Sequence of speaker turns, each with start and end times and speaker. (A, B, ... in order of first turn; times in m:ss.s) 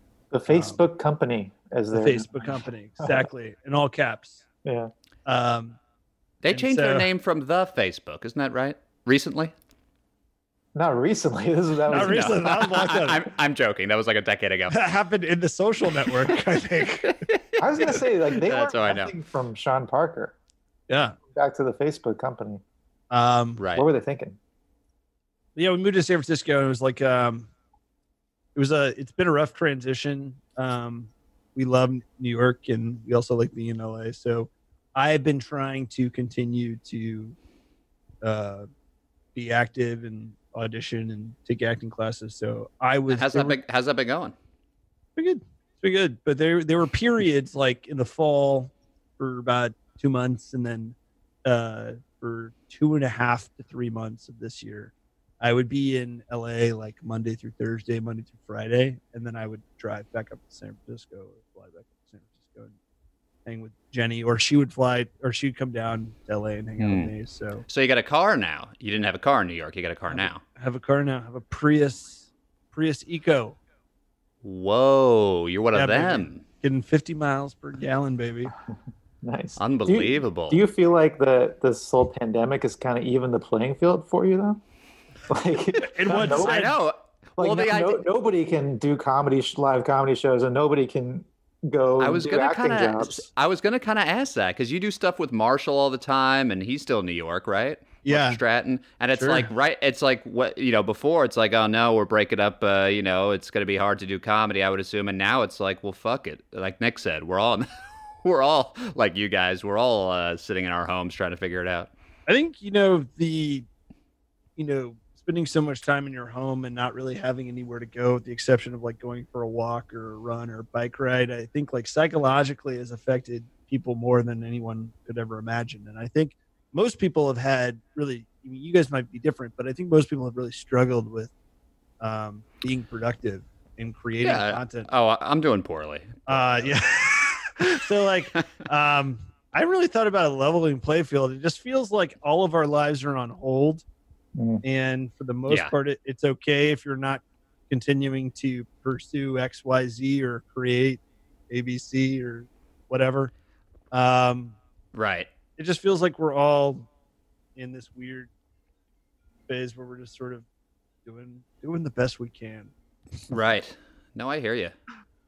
0:00.3-0:03.3 A
0:00.5-0:00.8 B
0:01.9-0:04.4 B
0:04.6-0:04.9 A
0:05.3-0:05.8 B
0:06.4-0:09.5 C
0:06.5-0:07.1 B
0:10.8-0:12.4 A
0:11.9-0:13.2 B
0:11.9-0:14.8 C
0:14.7-0:17.2 B
0:17.1-0:17.4 C
0:17.6-0:20.4 A
0:18.0-0:19.1 C
0:20.9-0:21.2 B
0:21.3-0:22.6 A
0:23.1-0:23.6 B
0:23.6-0:23.8 C
0:23.8-0:24.4 A
0:25.6-0:27.5 B
0:28.6-0:37.4 B
0:38.2-0:38.7 B
0:39.4-0:43.6 B
0:43.1-0:44.4 C
0:45.2-1:02.8 B
1:03.4-1:07.6 B
1:06.8-1:07.1 C
1:07.7-1:10.4 C
1:10.1-1:13.6 B
1:14.4-1:16.4 C
1:15.7-1:18.5 B
1:19.2-1:24.6 A
1:19.6-1:20.6 C
1:25.3-1:26.7 A
1:25.8-1:26.8 B
1:26.2-1:28.0 C
1:27.4-1:33.2 A
1:32.0-1:47.7 C
1:38.0-1:38.4 B
1:39.2-1:39.5 B
1:48.2-1:51.9 C
1:52.3-1:53.7 B
1:54.6-2:11.3 B
2:12.0-2:14.9 B
2:14.2-2:16.7 C
2:16.3-2:23.8 B
2:24.4-2:24.6 A
2:24.6-2:33.3 B
2:33.9-2:34.6 B
2:34.9-2:35.3 C
2:35.6-2:36.9 B
2:37.6-2:38.3 B
2:39.5-2:40.5 B
2:41.0-2:42.7 B
2:43.3-2:44.8 C